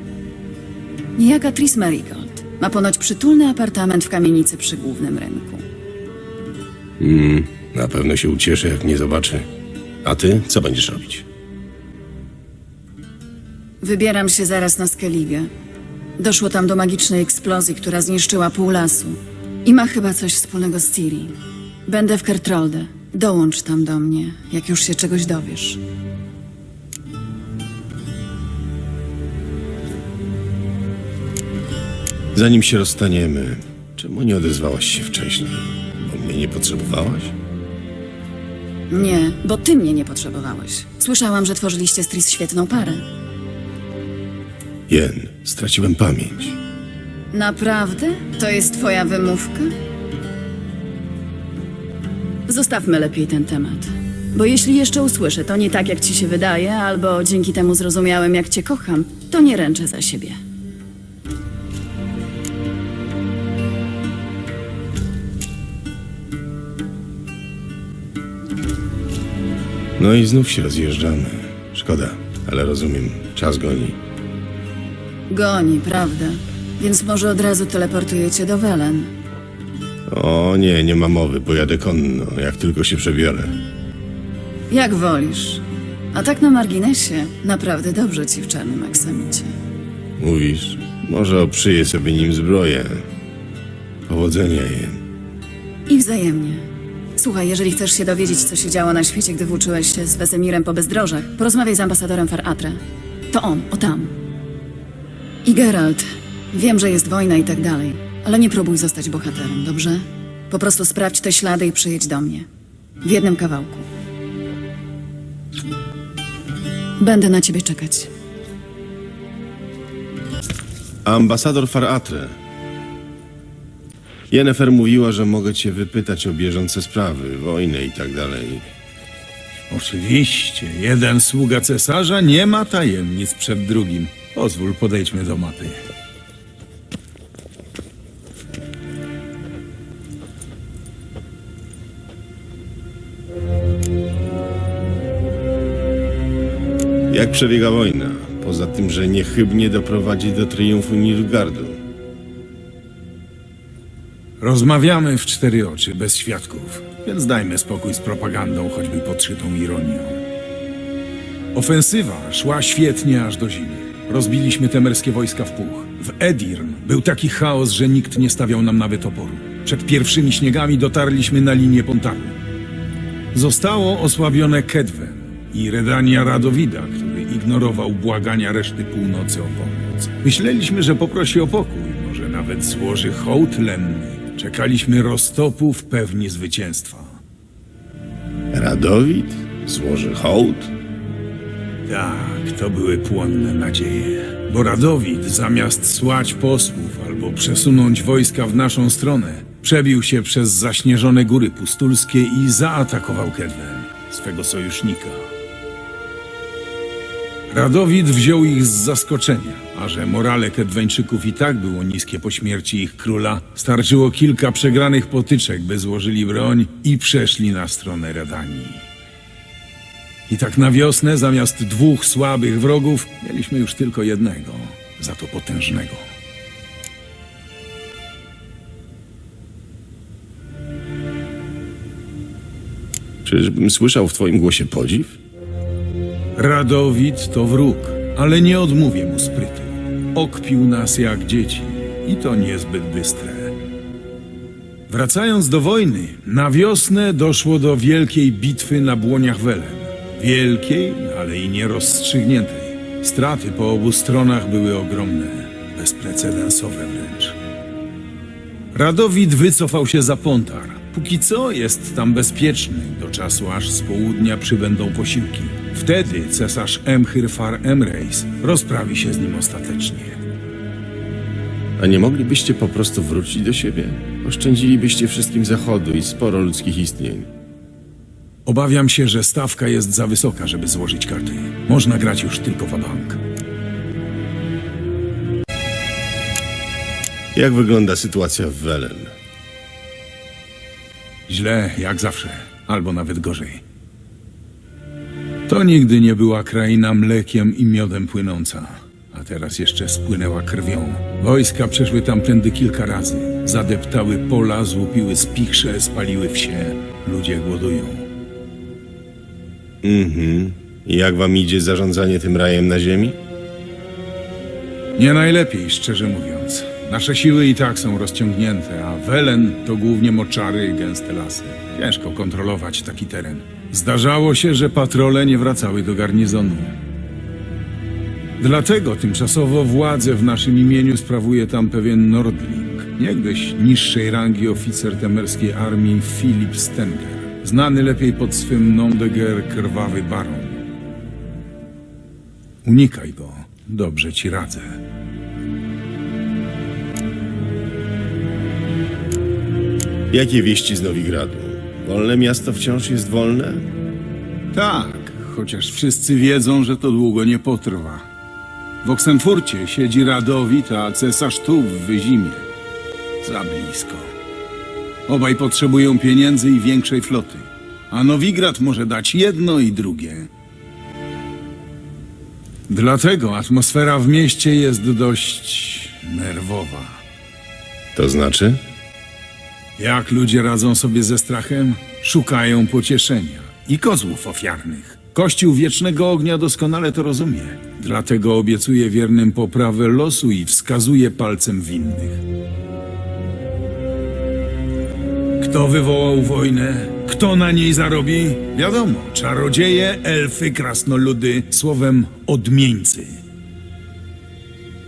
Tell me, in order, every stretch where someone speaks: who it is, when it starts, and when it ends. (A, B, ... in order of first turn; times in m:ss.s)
0:01.2-0:05.6 A
0:07.0-0:09.5 B
0:10.0-0:11.2 B
0:13.8-0:15.5 A
0:16.2-0:21.3 A
0:21.9-0:25.8 A
0:32.3-0:37.3 B
0:38.9-0:43.0 A
0:44.9-0:46.6 B
0:47.3-0:49.7 A
0:52.5-1:00.4 A
1:10.0-1:14.0 B
1:15.3-1:19.1 A
1:20.1-1:23.5 B
1:24.7-1:29.5 A
1:30.2-1:33.0 B
1:34.1-1:35.0 B
1:35.9-1:36.6 A
1:37.2-1:42.8 A
1:43.3-1:44.1 A
1:45.4-1:52.5 A
1:53.0-1:53.8 A
1:57.0-1:58.1 A
2:01.0-2:02.3 B
2:04.3-2:08.6 B
2:09.7-2:15.8 C
2:27.1-2:31.8 B
2:34.4-2:40.2 C
2:41.5-2:52.4 C
2:53.3-3:07.2 C
3:08.5-3:10.7 B
3:11.9-3:25.3 C
3:27.5-3:38.8 C
3:40.3-3:46.0 C
3:53.2-3:55.2 B
3:56.4-4:03.5 C
4:04.9-4:17.4 C
4:18.7-4:30.2 C
4:31.8-4:37.3 B
4:38.4-4:43.2 C
4:47.3-4:49.1 B
4:51.3-4:53.6 C
4:55.5-5:08.0 C
5:09.8-5:13.2 B
5:15.0-5:26.7 C
5:28.4-5:40.6 C
5:42.6-5:44.8 C
5:50.1-5:53.6 B
5:54.5-5:58.0 C
5:58.8-6:02.4 C
6:03.2-6:04.0 C
6:05.1-6:10.3 C
6:12.7-6:17.0 C
6:18.0-6:18.6 B
6:19.8-6:32.2 C
6:35.4-6:43.2 C